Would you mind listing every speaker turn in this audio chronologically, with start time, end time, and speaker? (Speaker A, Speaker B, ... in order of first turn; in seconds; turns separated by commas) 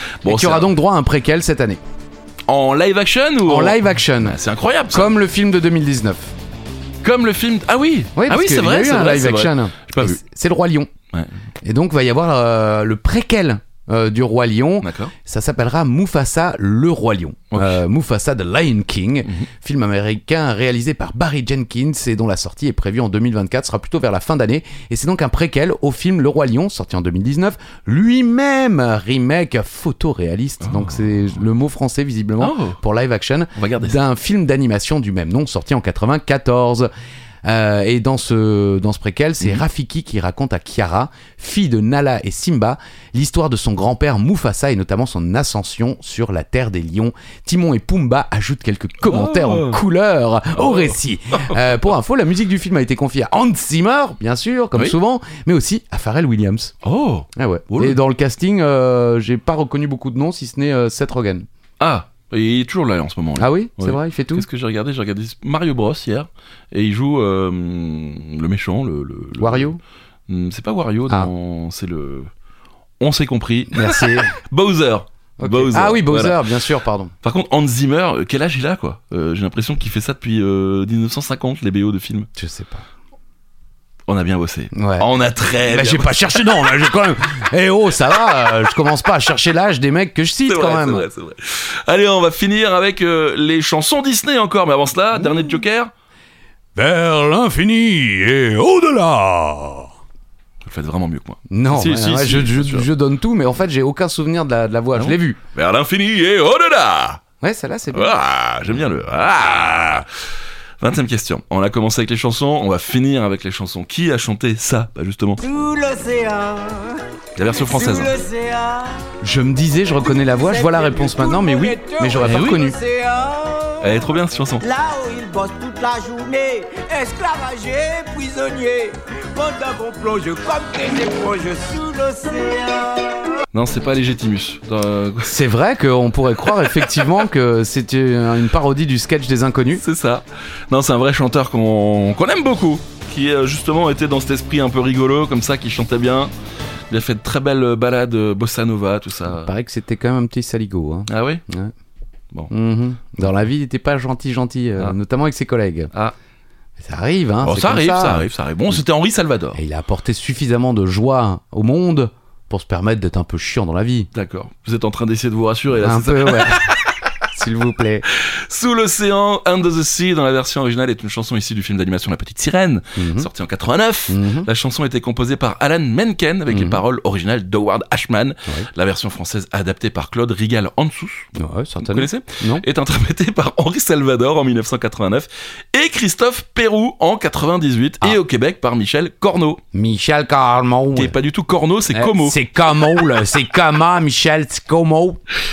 Speaker A: 0.2-0.7, Speaker B: 0.2-1.8, Speaker A: 2.5-5.1, Speaker B: 3.5-4.4, Speaker B: 4.9-6.3, Speaker A: 7.0-10.2, Speaker B: 8.2-10.9, Speaker A: 11.1-11.4, Speaker B: 11.6-36.9, Speaker A: 14.8-15.1, Speaker A: 17.5-17.8, Speaker A: 19.2-19.5, Speaker A: 30.6-31.1, Speaker A: 32.4-32.8, Speaker A: 33.5-34.0, Speaker B: 37.4-56.7, Speaker A: 49.0-49.8, Speaker A: 50.5-51.6, Speaker A: 56.8-58.0, Speaker B: 57.4-61.5, Speaker A: 61.8-69.7, Speaker B: 63.4-64.5, Speaker B: 69.4-69.8, Speaker A: 70.3-72.3, Speaker A: 73.0-76.5, Speaker B: 73.7-74.4, Speaker B: 75.4-77.1, Speaker A: 77.2-82.3, Speaker B: 82.4-82.8, Speaker A: 84.1-87.0, Speaker B: 84.7-85.1, Speaker B: 85.6-91.1, Speaker A: 90.5-95.9, Speaker B: 95.2-95.6, Speaker B: 96.8-99.9, Speaker A: 100.6-102.9, Speaker B: 101.5-105.4, Speaker A: 105.0-107.2, Speaker B: 107.4-108.2, Speaker A: 107.9-110.1, Speaker A: 110.8-115.5, Speaker C: 115.4-119.1, Speaker A: 117.4-118.1, Speaker B: 119.2-122.8, Speaker C: 119.8-124.0, Speaker A: 122.2-122.6, Speaker A: 123.8-124.6, Speaker C: 124.6-133.4, Speaker A: 133.5-135.3, Speaker B: 135.2-139.8, Speaker A: 139.7-146.3, Speaker A: 146.9-149.5, Speaker B: 149.3-151.7, Speaker A: 151.1-151.4, Speaker B: 152.5-155.9, Speaker B: 156.8-158.8, Speaker A: 157.4-159.6, Speaker B: 159.5-164.1, Speaker A: 164.1-166.8, Speaker B: 165.7-166.7, Speaker B: 167.3-168.1, Speaker A: 168.1-189.6, Speaker B: 173.0-173.3, Speaker B: 174.1-174.5, Speaker B: 176.5-176.8, Speaker B: 181.3-182.7, Speaker B: 189.7-191.2, Speaker A: 191.0-192.4, Speaker B: 191.9-195.2